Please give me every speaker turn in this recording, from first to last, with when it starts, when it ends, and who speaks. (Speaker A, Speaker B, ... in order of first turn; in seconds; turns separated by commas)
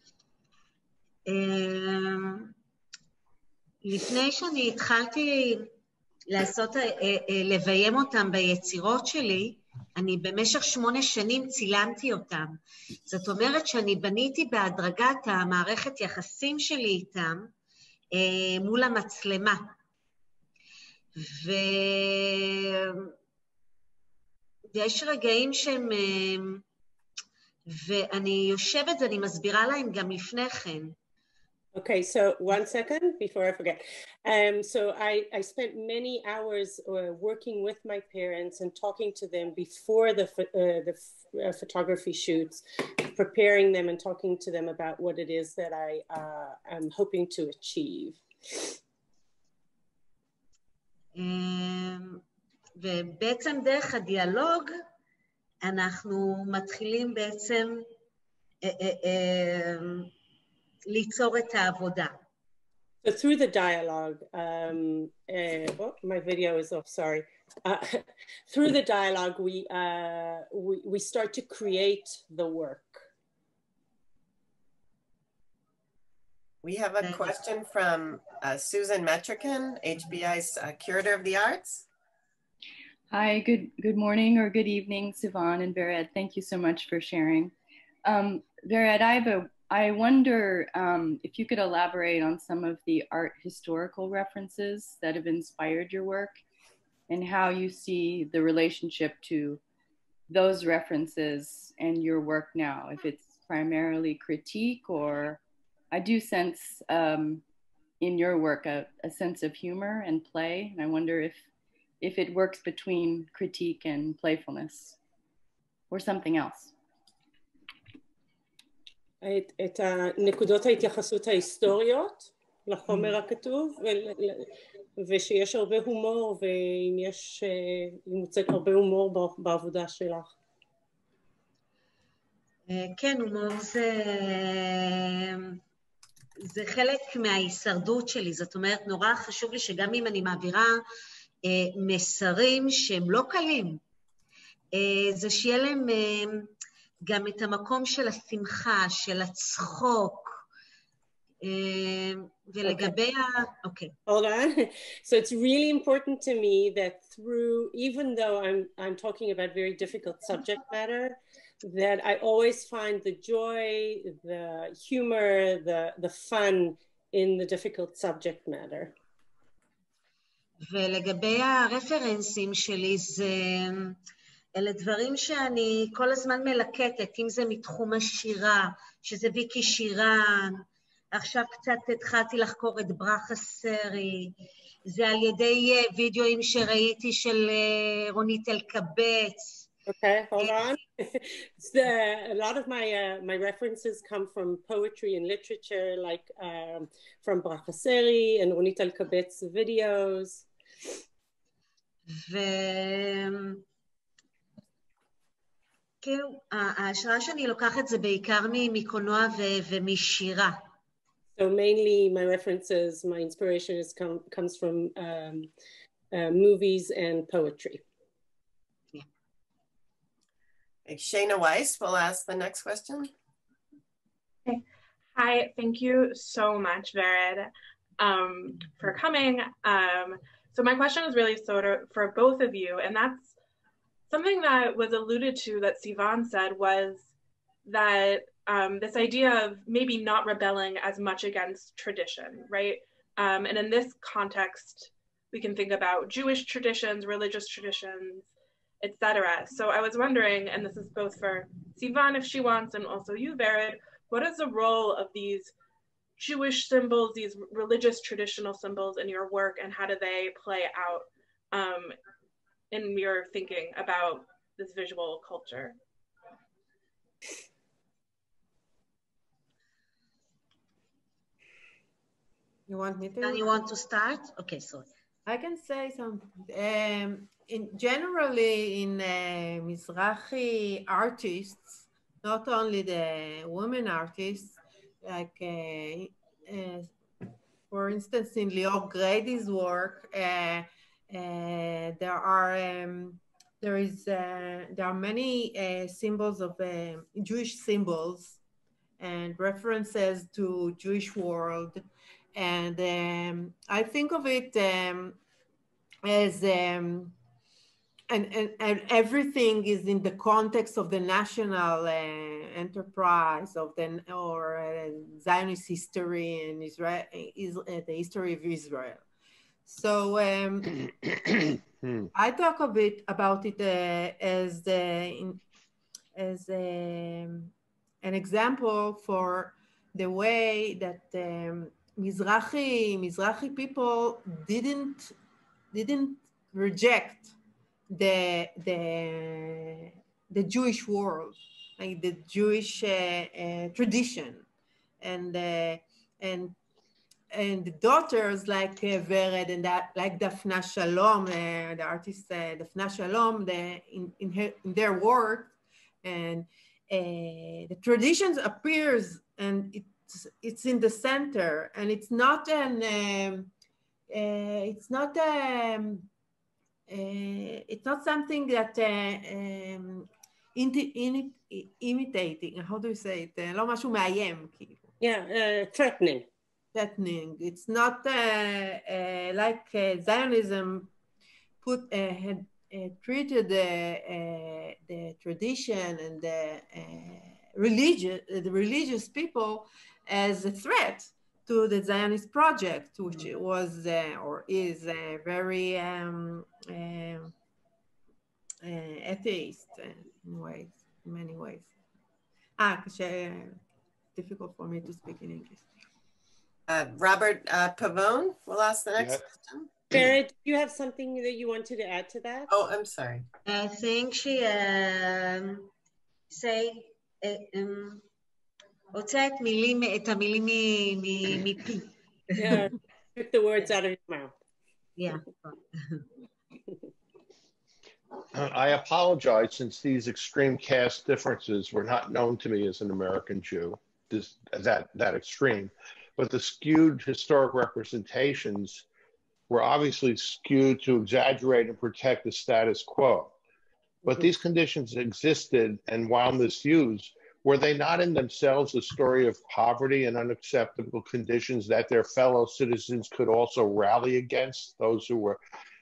Speaker A: 1.3-2.5, Speaker A: 3.8-5.7, Speaker A: 6.3-17.5, Speaker A: 18.1-19.7, Speaker A: 21.2-23.1, Speaker A: 24.7-26.6, Speaker A: 27.7-30.9, Speaker B: 31.7-42.6, Speaker B: 43.1-48.2, Speaker A: 51.1-52.2, Speaker A: 52.8-54.7, Speaker A: 55.6-57.9, Speaker A: 58.6-60.1, Speaker A: 60.9-62.2, Speaker B: 63.0-73.1, Speaker C: 76.6-81.9, Speaker A: 77.0-77.4, Speaker D: 83.1-87.5, Speaker D: 88.0-96.4, Speaker D: 97.1-99.6, Speaker D: 100.3-105.4, Speaker D: 105.9-107.4, Speaker D: 108.0-111.4, Speaker D: 112.0-115.0, Speaker D: 115.9-116.7, Speaker B: 119.2-130.3, Speaker A: 132.7-135.6, Speaker A: 136.4-140.8, Speaker A: 141.4-143.8, Speaker A: 144.7-146.5, Speaker A: 147.1-150.4, Speaker A: 151.4-153.9, Speaker B: 152.6-152.9, Speaker B: 154.1-168.9, Speaker A: 170.7-174.0, Speaker A: 174.6-184.3, Speaker A: 184.9-189.7, Speaker B: 189.9-200.4, Speaker A: 190.4-190.7, Speaker A: 202.1-203.6, Speaker A: 206.0-210.6, Speaker B: 211.4-215.5, Speaker B: 216.1-217.8, Speaker C: 220.9-223.1, Speaker E: 225.1-233.3, Speaker E: 234.1-237.1, Speaker E: 237.6-248.3, Speaker E: 248.8-255.5, Speaker E: 256.2-261.9, Speaker E: 262.7-265.8, Speaker F: 272.7-273.6, Speaker A: 273.2-274.9, Speaker F: 275.3-286.9, Speaker F: 287.7-298.4, Speaker F: 299.0-305.2, Speaker F: 306.0-307.1, Speaker F: 308.1-319.0, Speaker F: 319.7-320.7, Speaker F: 322.1-325.4, Speaker F: 326.1-327.5, Speaker F: 328.0-335.1, Speaker F: 335.7-337.3, Speaker F: 337.9-344.4, Speaker F: 345.0-346.6, Speaker F: 347.3-363.5, Speaker F: 364.1-366.1, Speaker F: 366.9-374.8, Speaker B: 375.0-376.3, Speaker F: 376.7-380.9, Speaker F: 381.6-397.3, Speaker F: 398.6-401.7, Speaker F: 402.6-403.6, Speaker F: 404.1-405.6, Speaker C: 406.7-409.7, Speaker G: 409.0-409.2, Speaker B: 409.9-412.5, Speaker C: 412.5-413.3, Speaker A: 413.4-415.7, Speaker A: 416.3-418.0, Speaker A: 418.9-422.7, Speaker B: 422.4-424.3, Speaker A: 425.0-426.0, Speaker G: 428.3-438.8, Speaker G: 439.5-443.3, Speaker G: 444.0-455.4